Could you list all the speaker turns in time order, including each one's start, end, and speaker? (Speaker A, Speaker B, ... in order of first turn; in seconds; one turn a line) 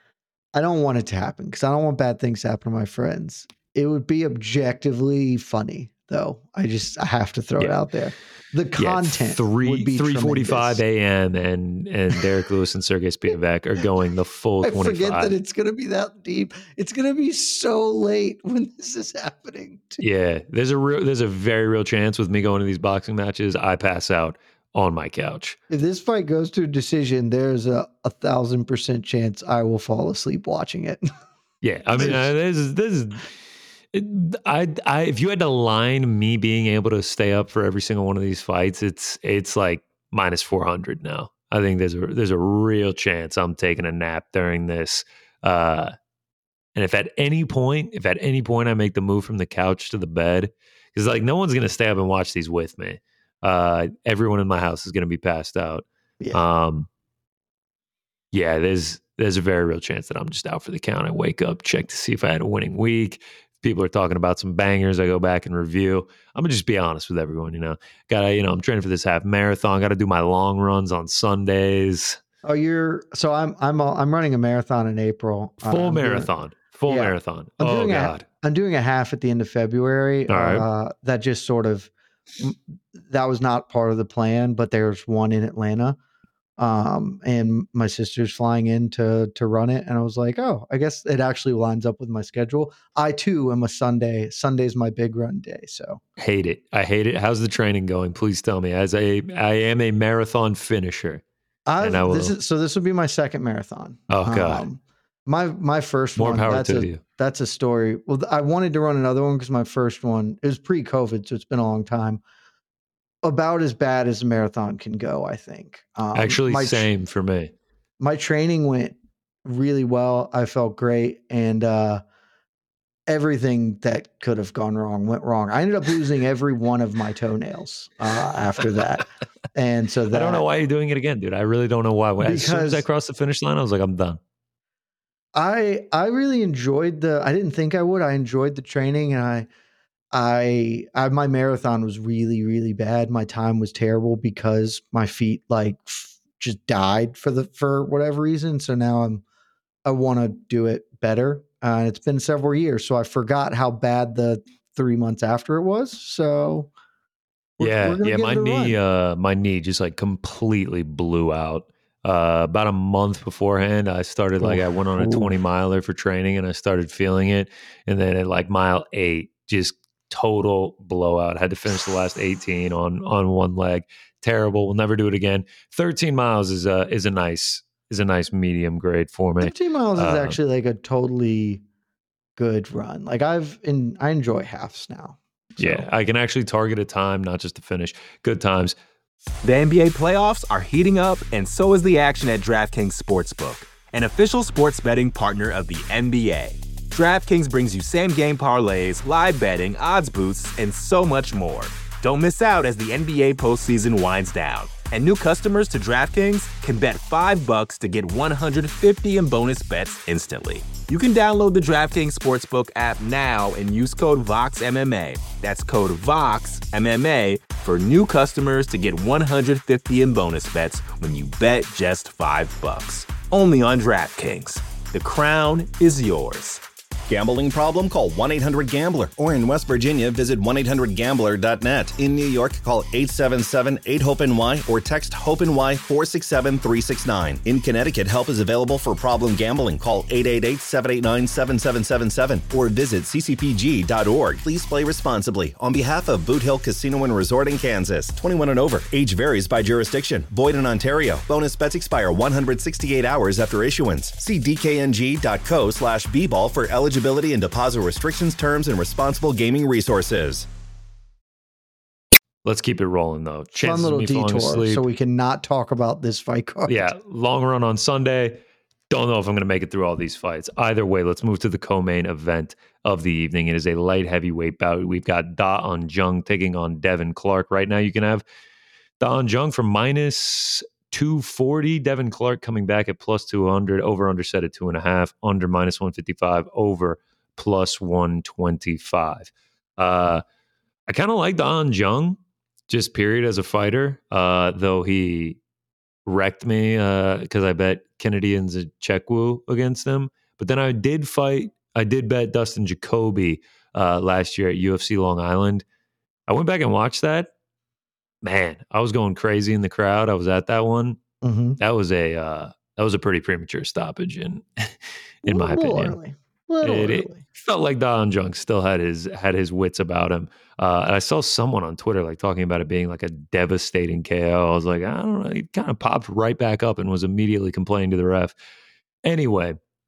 Speaker A: 0.5-10.8
Speaker B: 8.8-15.3
Speaker A: 14.6-20.0
Speaker B: 20.0-25.6
Speaker A: 25.7-31.1
Speaker B: 31.6-33.2
Speaker A: 32.0-32.2
Speaker B: 33.9-45.9
Speaker B: 46.7-56.9
Speaker B: 58.3-72.2
Speaker A: 72.4-76.3
Speaker B: 75.6-78.2
Speaker A: 76.9-86.0
Speaker B: 80.3-80.7
Speaker A: 86.6-96.0
Speaker B: 96.2-101.2
Speaker A: 101.7-112.2
Speaker B: 101.8-102.3
Speaker B: 104.1-104.6
Speaker B: 106.2-107.0
Speaker A: 113.2-116.9
Speaker B: 116.1-117.5
Speaker A: 118.0-122.0
Speaker A: 123.1-130.4
Speaker B: 130.1-134.2
Speaker A: 132.2-132.8
Speaker A: 135.3-139.5
Speaker A: 140.1-149.2
Speaker A: 149.8-156.7
Speaker A: 157.6-158.8
Speaker B: 157.6-180.4
Speaker A: 164.4-165.3
Speaker A: 179.4-181.6
Speaker A: 182.4-185.8
Speaker B: 185.6-188.8
Speaker C: 189.4-226.6
Speaker D: 227.1-260.5
Speaker B: 262.4-264.8
Speaker A: 263.5-266.9
Speaker B: 266.7-278.2
Speaker B: 279.0-290.2
Speaker B: 290.9-292.2
Speaker B: 292.7-295.4
Speaker B: 296.1-305.6
Speaker B: 306.3-307.3
Speaker B: 308.2-311.0
Speaker A: 311.2-311.6
Speaker B: 311.6-315.9
Speaker A: 315.3-317.2
Speaker B: 316.6-328.3
Speaker B: 329.0-329.6